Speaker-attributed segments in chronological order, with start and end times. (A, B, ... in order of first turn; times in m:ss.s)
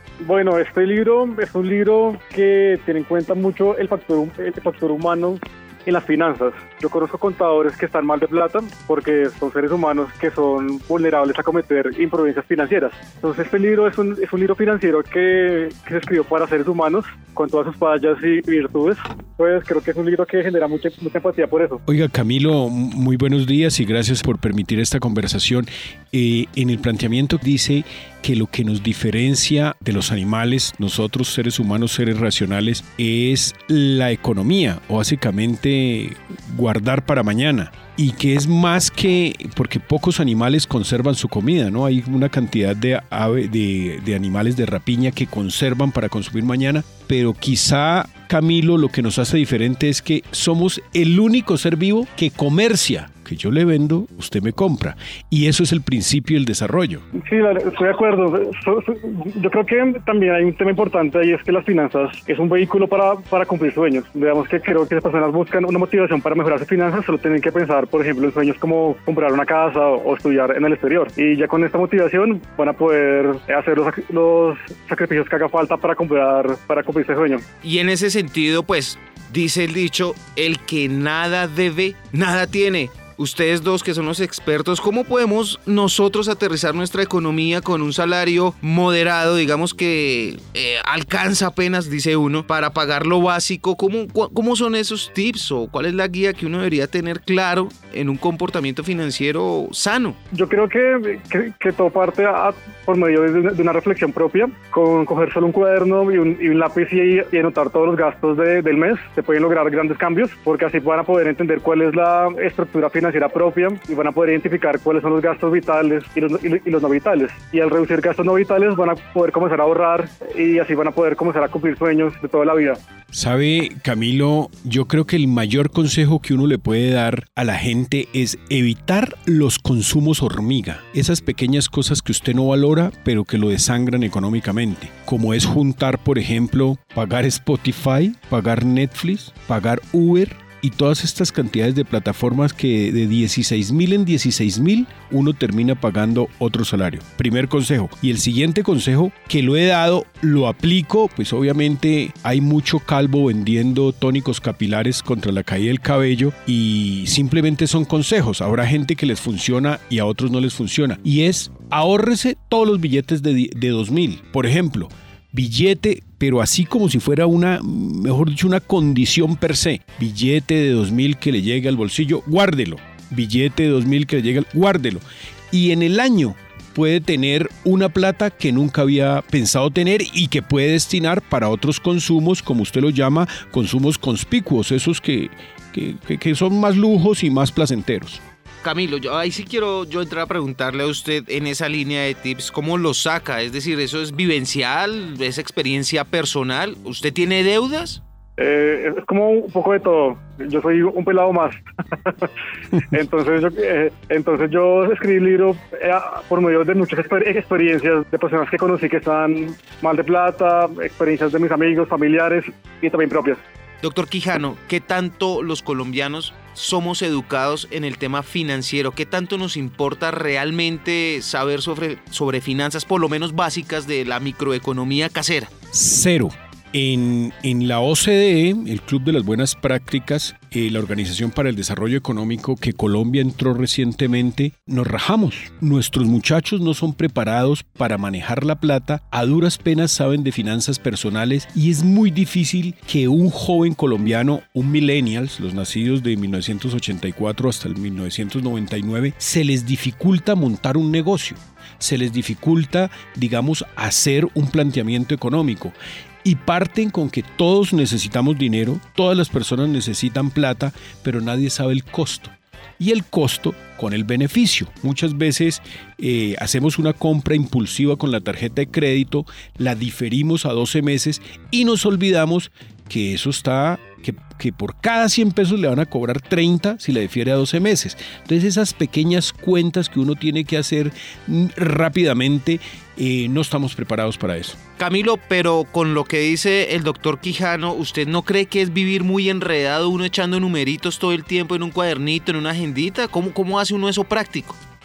0:00.2-0:21.8 A
0:21.9-0:57.0 B
0:57.1-1:17.4 A
1:17.6-1:40.2 C
1:40.3-2:02.8 A
2:03.1-3:08.2 B
3:08.6-3:18.0 C
3:18.4-3:33.4 A
3:33.8-3:45.5 C
3:45.7-4:44.6 B
4:44.8-4:54.6 C